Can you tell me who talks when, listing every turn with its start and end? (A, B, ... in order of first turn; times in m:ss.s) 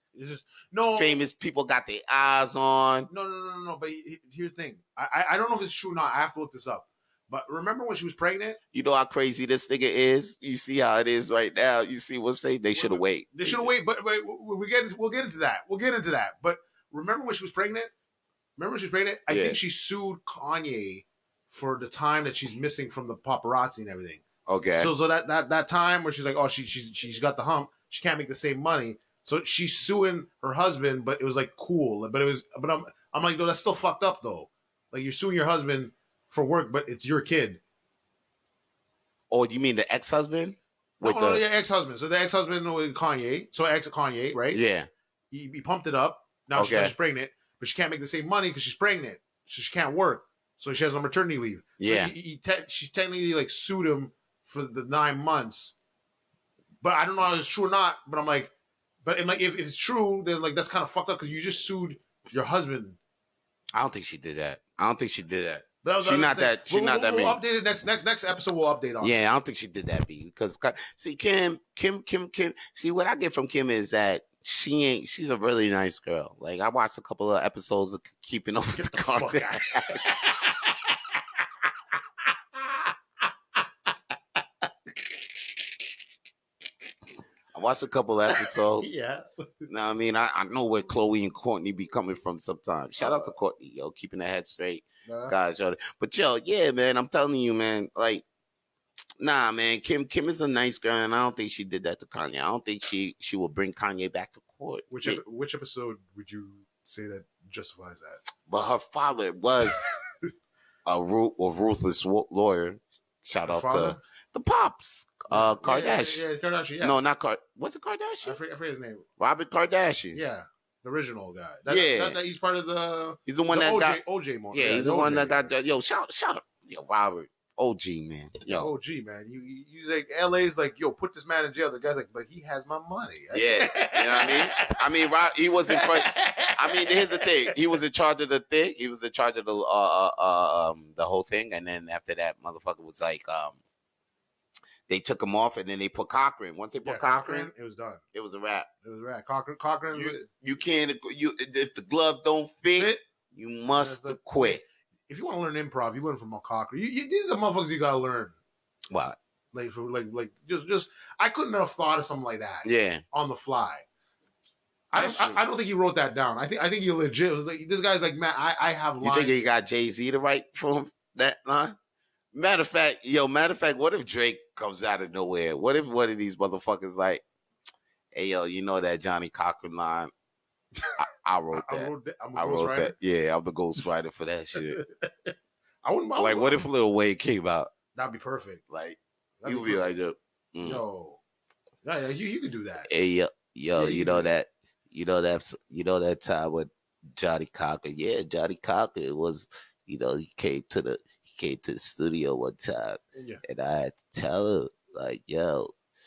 0:00.1-0:01.2 A
0:00.9-0:03.1 B
0:03.1-0:08.6 A
0:08.7-0:13.7 B
0:12.7-0:17.9 A
0:18.6-0:24.2 A
0:19.3-0:19.6 B
0:24.5-0:24.9 B
0:24.8-0:37.6 A
0:39.3-0:41.4 B
0:41.0-0:44.6 A
0:44.5-0:44.9 B
0:45.3-0:55.7 A
0:46.5-0:46.9 B
0:51.8-0:52.1 B
0:56.8-0:58.5 A
0:59.0-1:03.0 A
1:03.7-1:07.4 B
1:05.8-1:09.2 A
1:09.0-1:20.5 B
1:18.7-1:21.0 A
1:22.3-1:22.9 A
1:27.5-1:28.9 B
1:28.3-1:29.7 A
1:29.7-1:38.2 B
1:33.0-1:33.3 A
1:35.0-1:35.3 A
1:39.2-1:45.2 B
1:44.9-1:48.2 A
1:48.5-1:49.9 B
1:50.8-1:56.2 B
1:53.4-1:54.0 A
1:55.3-1:57.0 A
1:56.8-1:58.4 B
1:58.2-1:59.0 A
1:59.2-2:00.2 B
2:00.1-2:05.5 A
2:01.7-2:02.2 B
2:03.3-2:04.0 B
2:04.5-2:08.7 B
2:08.5-2:14.8 A
2:13.3-2:23.6 B
2:15.7-2:17.5 A
2:24.9-2:27.5 B
2:26.8-2:28.0 A
2:28.1-2:28.7 B
2:28.8-2:30.3 A
2:29.9-2:34.6 B
2:32.8-2:33.0 A
2:33.8-2:38.4 A
2:38.9-2:39.2 B
2:39.5-2:43.8 A
2:42.6-2:43.0 B
2:44.9-2:49.5 A
2:44.9-2:45.4 B
2:49.0-2:51.7 B
2:52.3-2:57.2 B
2:58.1-3:00.1 B
3:01.0-3:04.8 B
3:01.5-3:02.9 A
3:04.6-3:05.3 A
3:05.8-3:06.6 A
3:06.2-3:07.7 B
3:07.9-3:08.6 A
3:08.7-3:10.8 B
3:09.4-3:09.8 A
3:10.6-3:11.2 A
3:11.8-3:12.9 A
3:12.9-3:25.7 B
3:13.7-3:14.3 A
3:23.2-3:23.4 A